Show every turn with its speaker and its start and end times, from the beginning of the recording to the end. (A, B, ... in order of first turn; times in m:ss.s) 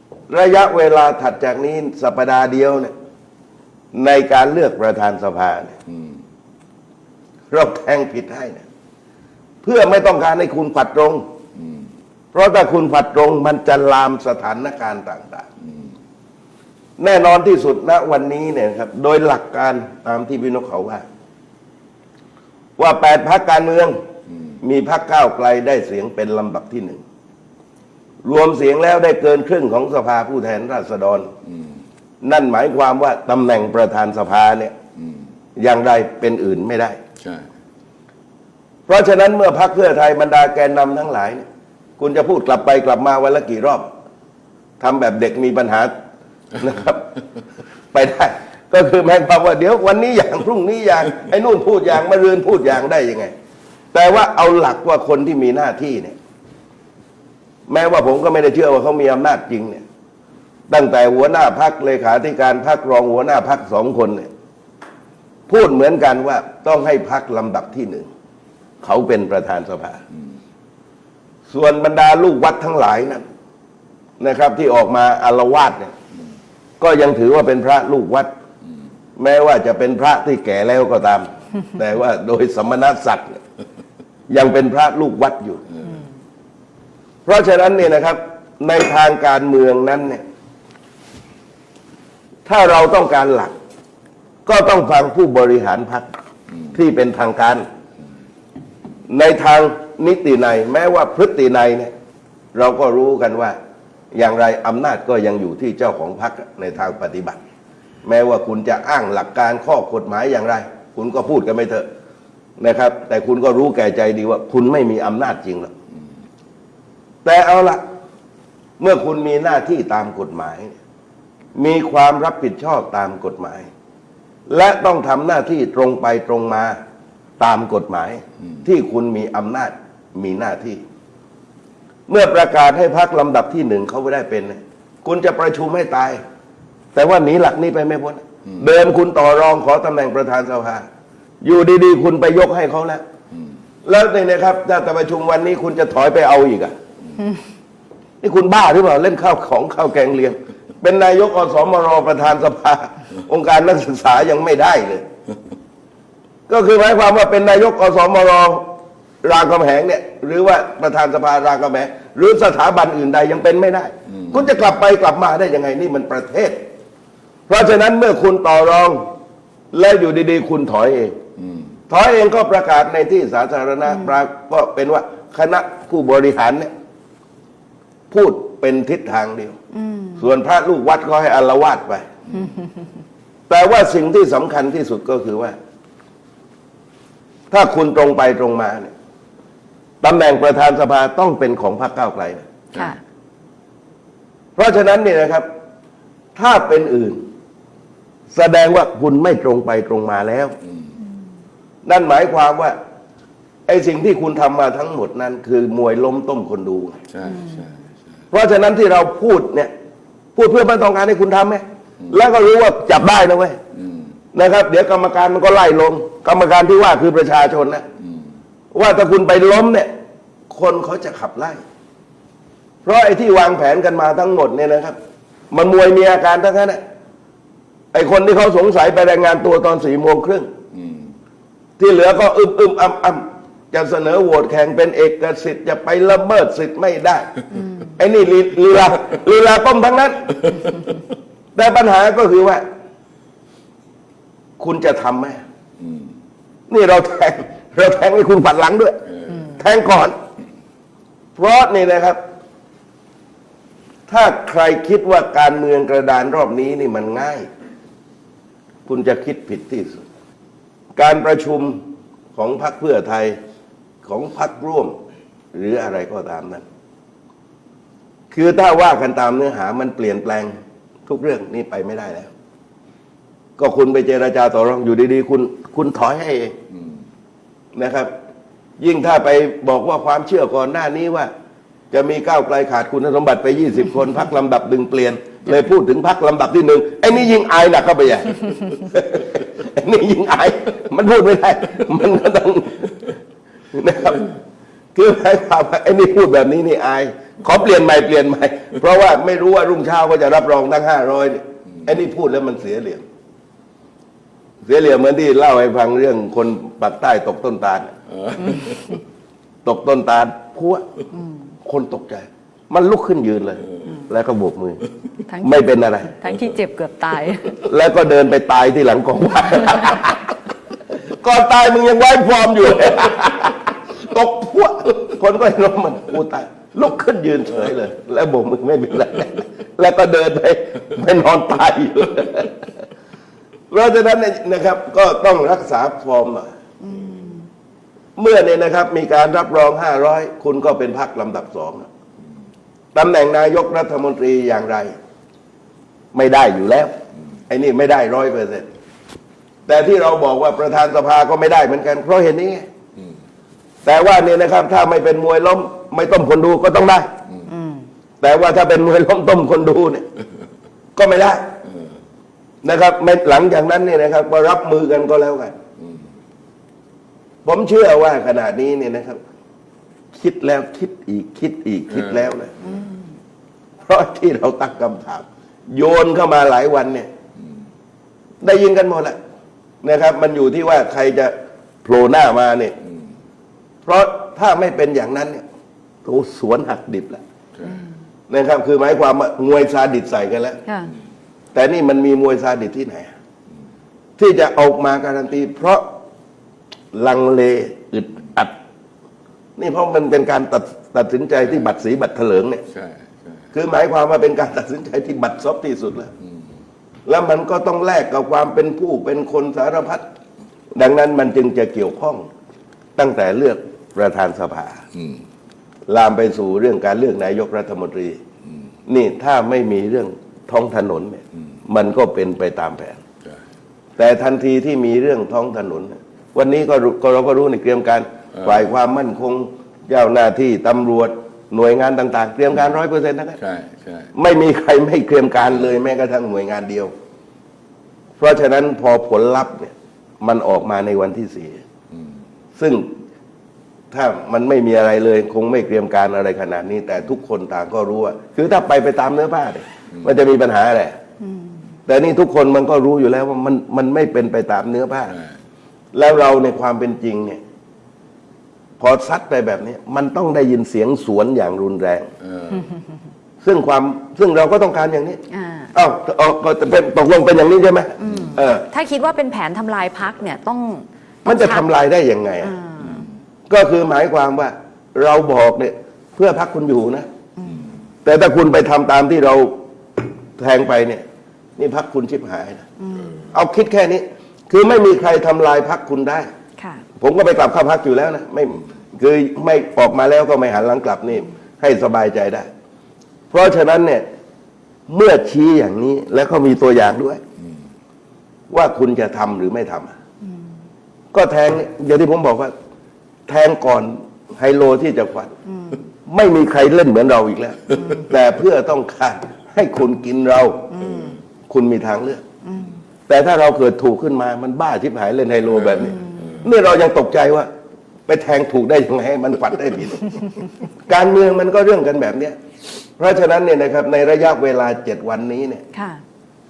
0:00.3-0:02.9 A
0:03.9-0:05.8 A
0:05.9-0:06.2 B
0:07.5-0:08.6 A
0:09.6-0:11.2 A
0:11.6-0:11.8 B
0:12.3-0:15.4 A
0:17.0-0:21.0 A
0:22.8-0:24.0 A
0:24.6-0:27.0 A
0:28.2-0:31.3 A
0:31.5-0:31.8 B
0:32.2-0:34.7 A
0:35.0-0:35.2 B
0:35.6-0:37.0 A
0:37.2-0:37.5 B
0:38.9-0:41.4 A
0:42.0-0:43.9 A
0:44.8-0:45.9 A
0:46.5-0:47.1 A
0:47.9-0:53.3 A
0:53.9-0:56.2 A
0:57.7-0:59.8 A
1:00.7-1:04.3 A
1:05.5-1:08.1 A
1:08.8-1:10.0 A
1:11.5-1:13.2 A
1:14.2-1:15.9 A
1:16.8-1:18.3 A
1:19.2-1:23.4 A
1:24.3-1:25.6 A
1:27.2-1:30.2 A
1:32.4-1:33.5 A
1:34.4-1:36.1 A
1:36.7-1:37.6 A
1:39.1-1:41.9 A
1:42.5-1:43.6 A
1:44.1-1:47.4 A
1:48.0-1:51.8 A
1:52.6-1:55.7 A
1:57.2-1:57.8 A
1:58.8-2:00.8 A
2:01.6-2:03.7 A
2:04.5-2:06.8 A
2:07.4-2:10.8 A
2:12.1-2:16.2 A
2:16.9-2:20.8 A
2:21.4-2:23.0 A
2:23.8-2:26.7 A
2:28.2-2:35.0 A
2:36.5-2:38.7 A
2:39.2-2:46.6 A
2:47.5-2:49.1 A
2:49.7-2:51.2 A
2:51.4-2:51.7 B
2:51.9-2:56.7 A
2:58.1-2:59.5 A
2:59.7-3:00.2 C
3:00.2-3:02.1 A
3:03.5-3:05.5 A
3:07.5-3:08.9 A
3:10.0-3:12.4 A
3:14.6-3:15.4 A
3:16.4-3:17.2 A
3:18.3-3:20.5 A
3:21.8-3:22.8 A
3:23.7-3:27.0 A
3:27.1-3:27.8 B
3:27.3-3:27.7 C
3:28.3-3:29.7 A
3:30.4-3:33.6 A
3:33.8-3:34.1 B
3:34.3-3:37.8 A
3:38.7-3:39.9 A
3:40.5-3:41.6 A
3:42.8-3:45.0 A
3:45.5-3:46.8 A
3:47.9-3:50.5 A
3:51.8-3:57.4 A
3:58.0-4:00.6 A
4:01.5-4:02.6 A
4:04.6-4:05.4 A
4:05.8-4:06.1 B
4:06.7-4:10.2 A
4:11.4-4:12.2 A
4:14.1-4:17.4 A
4:18.8-4:20.0 A
4:21.0-4:21.8 A
4:22.3-4:23.4 A
4:24.0-4:24.9 A
4:25.5-4:26.6 A
4:28.3-4:30.5 A
4:31.0-4:32.3 A
4:33.6-4:36.6 A
4:37.7-4:38.1 A
4:38.8-4:41.3 A
4:41.9-4:53.1 A
4:53.7-4:54.3 A
4:54.9-5:03.0 A
5:04.7-5:07.9 A
5:08.2-5:08.7 B
5:09.6-5:10.8 A
5:11.6-5:14.8 A
5:15.3-5:17.6 C
5:15.4-5:16.1 A
5:17.6-5:20.3 A
5:21.2-5:32.7 A
5:33.7-5:36.5 A
5:36.8-5:37.5 C
5:38.2-5:41.9 A
5:42.9-5:44.9 A
5:46.1-5:46.9 A
5:47.5-5:48.7 A
5:49.7-5:52.6 A
5:53.8-5:57.1 A
5:57.5-5:57.8 C
5:58.2-6:00.0 A
6:01.0-6:01.5 A
6:02.6-6:05.5 A
6:07.4-6:09.2 A
6:10.1-6:12.5 A
6:12.6-6:12.9 C
6:13.8-6:17.1 A
6:18.4-6:19.2 A
6:19.8-6:21.3 A
6:21.8-6:22.7 A
6:23.8-6:25.4 A
6:26.0-6:27.2 A
6:28.3-6:30.6 A
6:30.6-6:30.9 C
6:31.5-6:33.1 A
6:34.2-6:35.9 A
6:36.9-6:38.5 A
6:39.6-6:42.6 A
6:42.7-6:43.4 B
6:43.5-6:46.1 A
6:47.0-6:50.0 A
6:50.8-6:52.3 A
6:53.0-6:54.8 A
6:54.9-6:55.2 B
6:55.9-6:58.2 A
6:58.9-7:03.0 A
7:04.0-7:13.4 A
7:13.4-7:14.1 B
7:14.1-7:16.9 A
7:18.2-7:21.6 A
7:22.6-7:22.9 A
7:23.9-7:31.0 A
7:31.2-7:31.5 C
7:31.9-7:35.1 A
7:35.9-7:37.4 A
7:38.8-7:42.1 A
7:42.2-7:42.7 B
7:43.4-7:45.2 A
7:45.3-7:45.7 C
7:45.7-7:48.6 A
7:48.0-7:51.6 C
7:51.2-7:52.5 A
7:52.4-7:53.0 C
7:53.5-7:57.0 A
7:57.4-7:57.6 C
7:58.0-7:59.6 A
8:00.4-8:01.0 A
8:01.6-8:02.6 A
8:02.8-8:03.1 C
8:03.3-8:06.3 A
8:06.6-8:06.8 C
8:07.0-8:12.5 A
8:13.3-8:14.0 A
8:14.9-8:17.2 A
8:18.5-8:19.9 A
8:21.1-8:22.5 A
8:23.3-8:25.3 A
8:25.4-8:25.8 C
8:26.1-8:30.7 A
8:27.8-8:28.0 C
8:30.7-8:31.2 C
8:31.5-8:32.2 A
8:32.4-8:32.8 C
8:33.1-8:37.5 A
8:36.1-8:36.3 C
8:38.1-8:40.2 A
8:40.9-8:42.4 A
8:43.0-8:45.6 A
8:45.7-8:46.0 C